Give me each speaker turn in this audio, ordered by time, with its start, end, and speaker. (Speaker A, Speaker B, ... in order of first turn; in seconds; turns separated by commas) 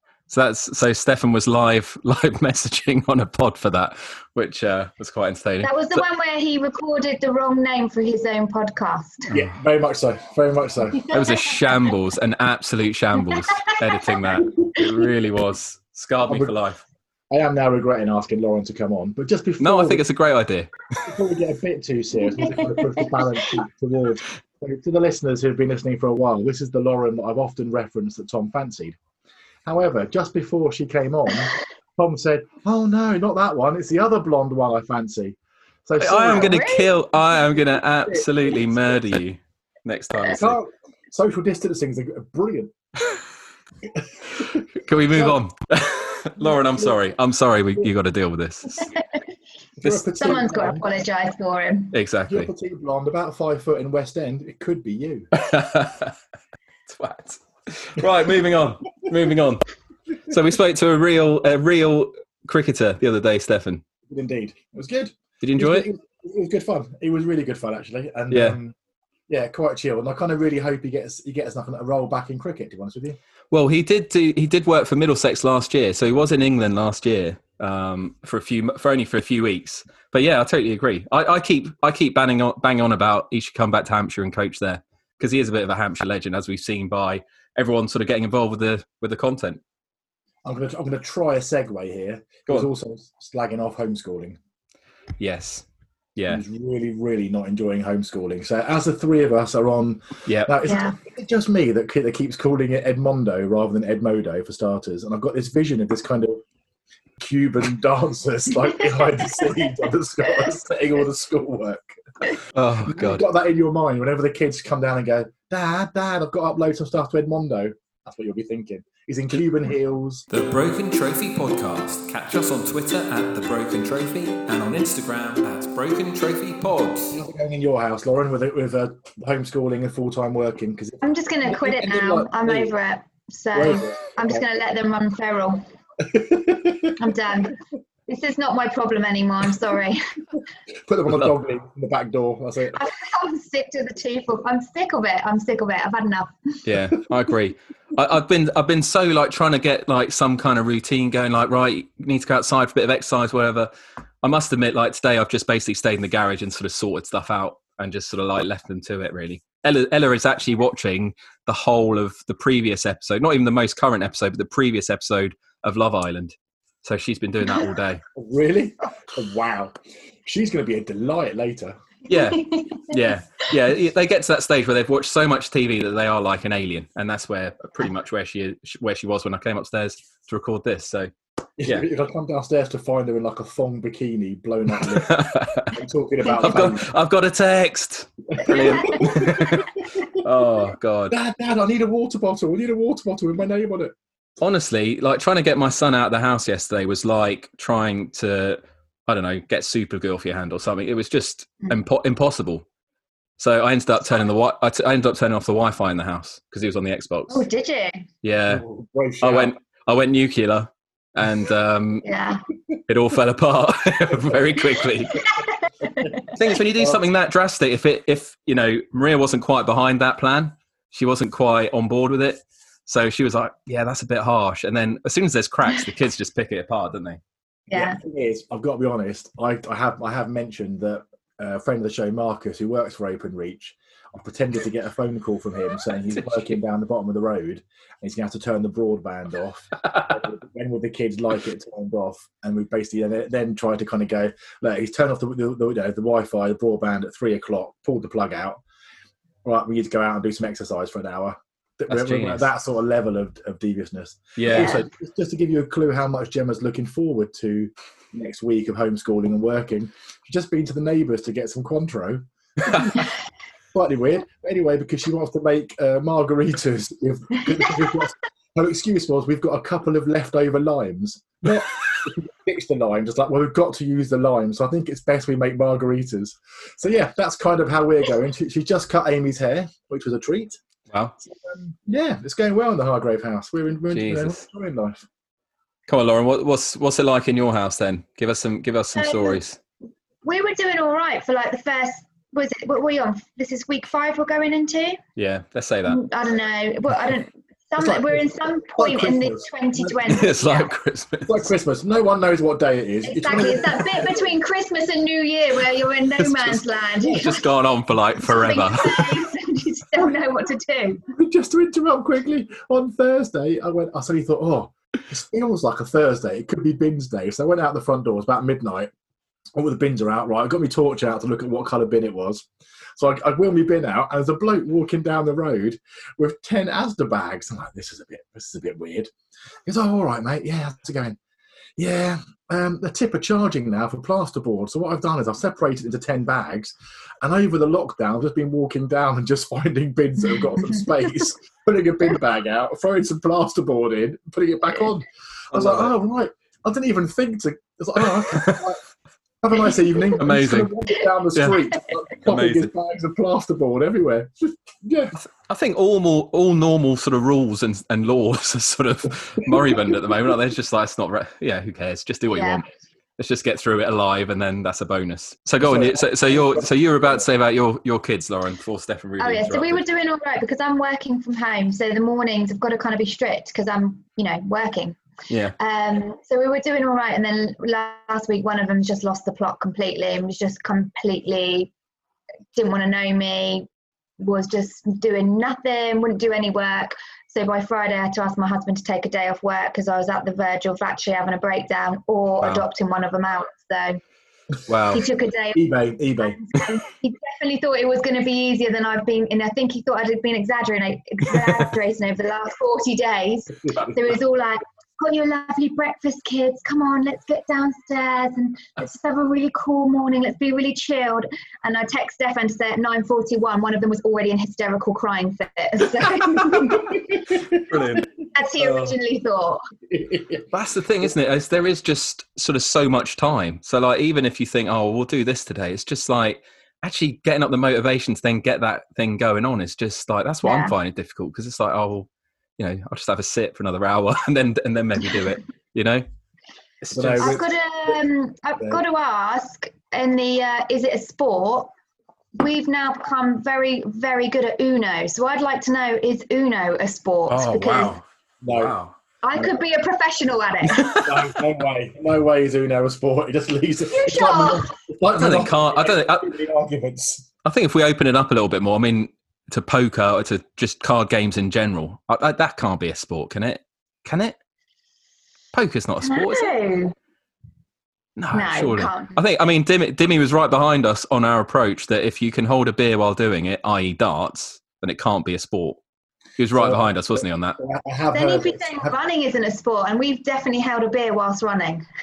Speaker A: 0.3-6.0, Speaker B: 5.6-9.3, Speaker C: 9.3-11.1, Speaker A: 11.1-16.8, Speaker B: 13.3-14.8, Speaker C: 16.2-16.6, Speaker C: 17.3-20.0, Speaker A: 19.6-21.0, Speaker C: 21.0-29.0, Speaker B: 22.7-23.0, Speaker C: 29.6-36.6, Speaker A: 36.0-40.6, Speaker B: 36.1-37.4, Speaker C: 40.2-42.7, Speaker C: 44.4-45.4, Speaker A: 44.8-48.9, Speaker C: 46.4-46.9, Speaker C: 49.8-50.9, Speaker B: 50.2-52.0, Speaker A: 51.9-52.5, Speaker C: 52.3-55.3, Speaker A: 55.3-56.1, Speaker A: 56.9-59.6, Speaker A: 60.2-63.8, Speaker C: 64.1-68.7, Speaker A: 65.4-65.9, Speaker A: 68.3-68.6, Speaker C: 69.3-73.2, Speaker A: 73.5-89.6, Speaker C: 90.4-94.4, Speaker A: 95.2-95.6, Speaker A: 96.2-96.4, Speaker C: 96.3-106.4, Speaker A: 100.3-100.5, Speaker B: 100.7-101.0, Speaker C: 107.2-111.9, Speaker A: 112.5-113.2, Speaker C: 112.8-120.2, Speaker A: 120.3-127.2, Speaker C: 127.1-132.7, Speaker B: 131.0-135.6, Speaker C: 133.5-134.4, Speaker C: 136.0-136.9, Speaker B: 137.0-140.0, Speaker C: 140.9-142.8, Speaker B: 142.7-146.5, Speaker A: 146.7-153.7, Speaker A: 154.2-168.0, Speaker C: 168.1-171.8, Speaker A: 172.1-181.8, Speaker B: 172.1-172.9, Speaker C: 181.6-186.9, Speaker A: 184.8-185.8, Speaker A: 186.3-191.2, Speaker B: 188.4-189.7, Speaker C: 188.4-189.7, Speaker C: 191.1-193.9, Speaker A: 194.4-202.6, Speaker A: 203.4-207.4, Speaker B: 207.3-208.0, Speaker A: 208.2-208.6, Speaker C: 208.5-209.5, Speaker A: 209.2-212.0, Speaker B: 212.0-212.4, Speaker A: 212.9-215.2, Speaker B: 215.2-216.3, Speaker A: 216.3-227.2, Speaker C: 216.7-217.0, Speaker C: 227.7-248.6, Speaker B: 227.7-228.0, Speaker C: 249.4-263.1, Speaker A: 251.9-252.5, Speaker A: 254.4-254.8, Speaker B: 254.5-254.8, Speaker C: 263.7-280.6, Speaker C: 281.4-285.0, Speaker A: 283.9-284.4, Speaker A: 285.9-289.6, Speaker B: 288.9-289.4, Speaker B: 290.2-295.0, Speaker A: 295.1-296.0, Speaker B: 295.9-300.7, Speaker C: 297.8-300.0, Speaker A: 300.1-301.5, Speaker C: 301.2-304.3, Speaker B: 303.0-307.5, Speaker A: 306.2-309.2, Speaker B: 308.2-311.0, Speaker C: 311.1-318.9, Speaker C: 319.5-329.1, Speaker C: 329.6-331.2, Speaker C: 331.8-348.8, Speaker A: 345.5-345.9, Speaker A: 348.3-348.6, Speaker C: 349.4-355.1, Speaker A: 350.1-350.7, Speaker A: 352.2-352.7, Speaker A: 355.1-362.6, Speaker B: 362.3-362.6, Speaker A: 363.2-369.8, Speaker C: 365.6-367.2, Speaker B: 369.2-375.0, Speaker A: 375.3-375.5, Speaker B: 375.6-381.7, Speaker B: 382.5-383.7, Speaker B: 384.2-394.0, Speaker A: 394.7-395.0, Speaker B: 394.9-395.6, Speaker C: 395.5-396.4, Speaker B: 396.2-417.0, Speaker A: 416.6-416.9, Speaker C: 416.8-418.0, Speaker A: 417.5-418.1, Speaker B: 418.3-419.6, Speaker C: 419.9-420.4, Speaker A: 420.5-436.0, Speaker B: 430.4-430.7, Speaker A: 436.8-437.4, Speaker C: 436.9-437.4, Speaker B: 437.2-441.7, Speaker B: 442.4-447.9, Speaker A: 447.3-448.9, Speaker C: 448.4-448.8, Speaker B: 449.2-450.9, Speaker A: 450.7-451.1, Speaker C: 450.8-457.3, Speaker B: 453.9-454.7, Speaker A: 455.1-456.3, Speaker A: 457.4-464.4, Speaker A: 465.5-466.5, Speaker B: 466.0-466.9, Speaker A: 468.2-475.8, Speaker B: 468.3-469.2, Speaker A: 476.4-477.6, Speaker C: 476.5-478.9, Speaker B: 478.1-481.9